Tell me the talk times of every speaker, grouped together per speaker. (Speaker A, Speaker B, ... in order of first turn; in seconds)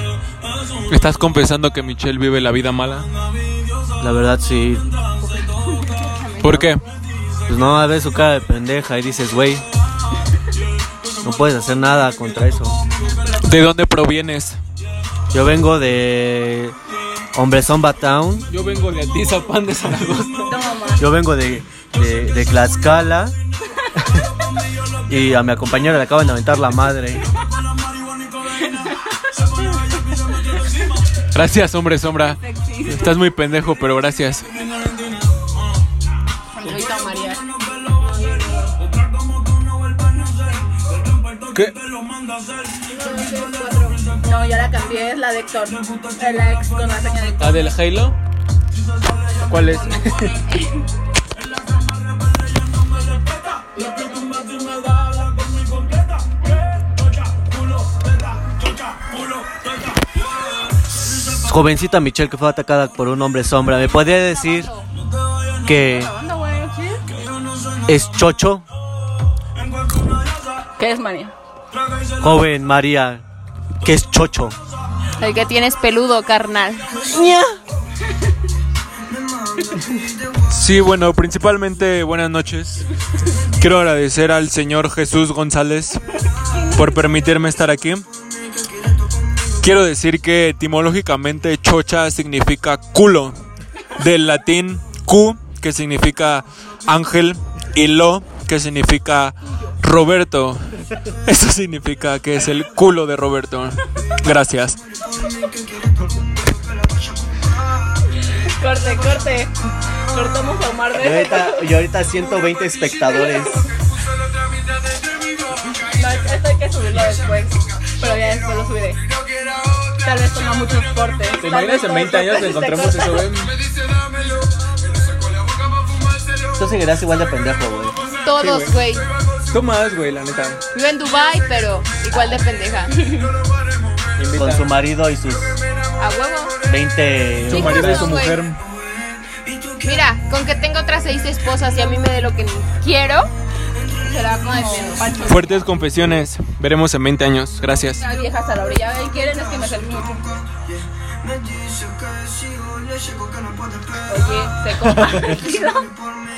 Speaker A: 0.9-3.1, 6.4-6.8, 13.4-14.6, 18.5-20.5, 31.3-34.5, 47.4-48.2, 49.4-50.4, 80.5-82.9, 83.6-86.0, 86.7-88.0, 89.6-93.4, 94.0-104.8, 121.4-123.6, 128.4-128.8, 129.5-130.6, 134.2-134.7, 137.4-138.6, 145.2-148.0
Speaker B: 4.0-4.9, 7.5-9.7, 11.2-12.8, 15.3-16.8, 17.3-18.5, 21.0-23.4, 23.9-24.2, 25.1-27.2, 61.1-64.7, 65.6-66.1, 67.9-68.7, 72.2-73.2, 73.8-74.6, 111.0-113.7, 126.6-128.0, 134.3-135.6, 136.7-138.1, 154.8-155.3
Speaker C: 5.2-6.9, 38.0-38.8, 43.0-44.0, 64.0-64.9, 75.2-76.8, 128.2-129.1, 130.7-132.9, 136.0-136.6, 137.5-138.4, 139.8-143.3, 144.1-145.2
Speaker D: 13.1-13.4, 20.5-21.0, 32.4-33.1, 36.6-37.4, 44.2-47.7, 65.7-67.0, 70.8-71.3, 77.1-77.5, 86.4-87.0, 108.2-109.5, 110.1-111.7, 115.9-119.0, 120.0-123.2, 144.2-145.6, 148.0-150.3, 154.1-155.9